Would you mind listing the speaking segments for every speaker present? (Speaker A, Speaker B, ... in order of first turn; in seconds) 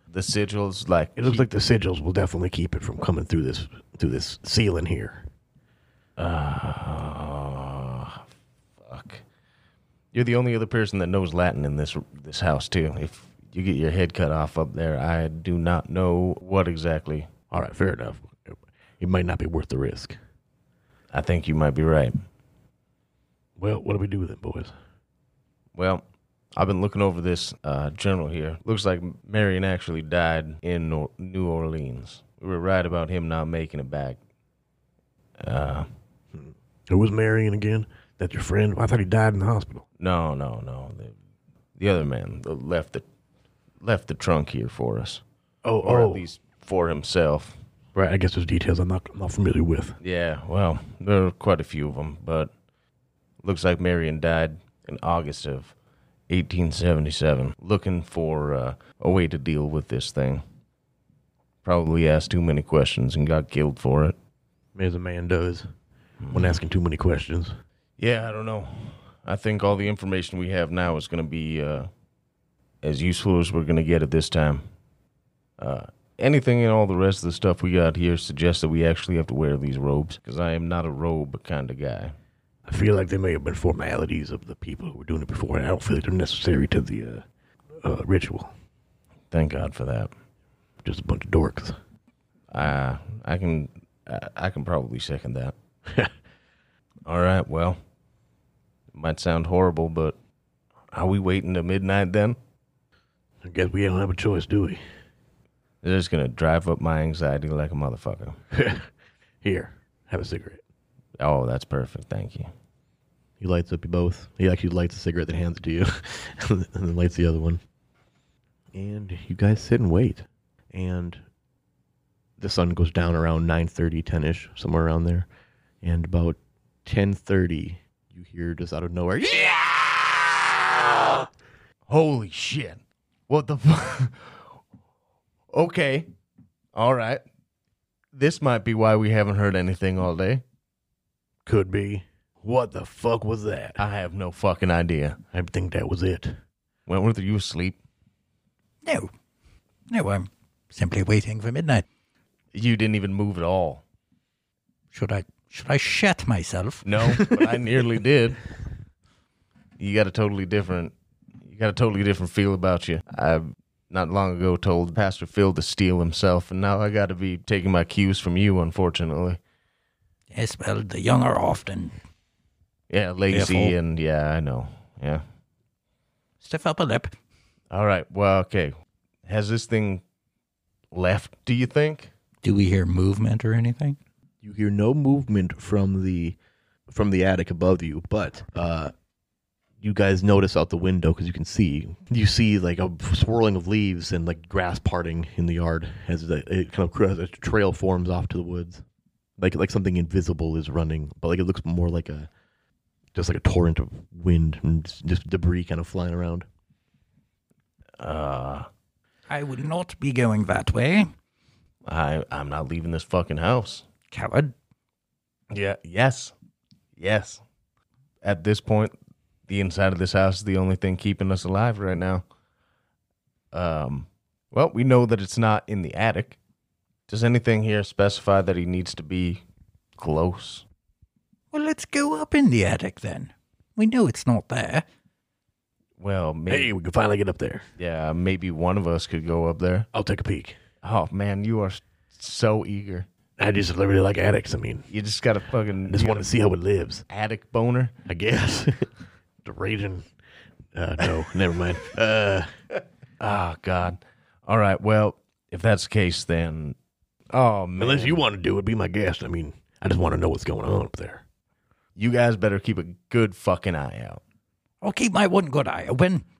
Speaker A: 0.1-1.4, 6.2-8.2, 8.8-9.2, 10.1-17.3, 21.1-22.1, 25.7-26.0, 26.5-34.2, 35.4-35.9, 40.0-41.1, 41.8-43.0, 43.8-45.2, 45.8-47.6, 50.0-52.5, 53.4-55.7, 56.3-60.4, 61.6-64.2, 66.2-66.6, 68.0-71.9, 72.8-74.7, 75.6-82.1, 89.3-90.1, 92.5-95.5, 97.0-97.8, 98.9-100.2, 100.9-102.4, 105.8-108.4, 111.2-112.5, 131.9-134.6, 135.5-136.1, 136.7-137.2, 138.1-140.4, 143.8-145.2, 146.9-147.8, 152.5-153.8, 156.8-158.4, 159.8-160.9, 161.4-169.4, 172.9-175.2, 177.7-180.0, 180.9-182.1, 208.0-208.7, 211.8-213.8, 215.5-216.3, 217.0-217.4, 218.2-218.9, 219.5-222.2, 223.5-226.4, 227.1-229.4, 230.0-230.6, 236.0-236.7, 237.8-239.9, 240.8-243.1, 244.9-246.3, 247.1-247.9, 253.2-256.8, 257.3-258.2, 261.9-264.2
Speaker B: 1.2-5.3, 17.5-20.2, 23.6-24.7, 36.3-39.9, 45.6-46.2, 47.9-50.0, 64.7-65.7, 66.3-67.6, 82.7-87.2, 87.8-88.5, 90.8-91.8, 95.9-96.1, 103.4-104.8, 108.5-108.9, 109.4-110.6, 113.4-117.6, 118.7-121.2, 122.4-125.3, 125.8-130.2, 141.4-143.8, 145.3-146.4, 157.2-157.4, 184.4-186.3, 186.9-188.9, 189.8-198.8, 199.4-202.3, 203.1-206.5, 236.5-237.7, 239.9-240.6, 243.4-244.9, 245.9-247.0, 248.1-248.9, 249.4-250.1, 250.7-252.5, 257.8-261.2
Speaker C: 148.8-149.1, 149.9-151.8, 154.9-156.8, 170.3-171.9, 173.3-173.8, 176.4-177.1, 182.4-184.0, 209.3-211.1, 214.1-214.5, 231.5-234.8, 264.8-266.2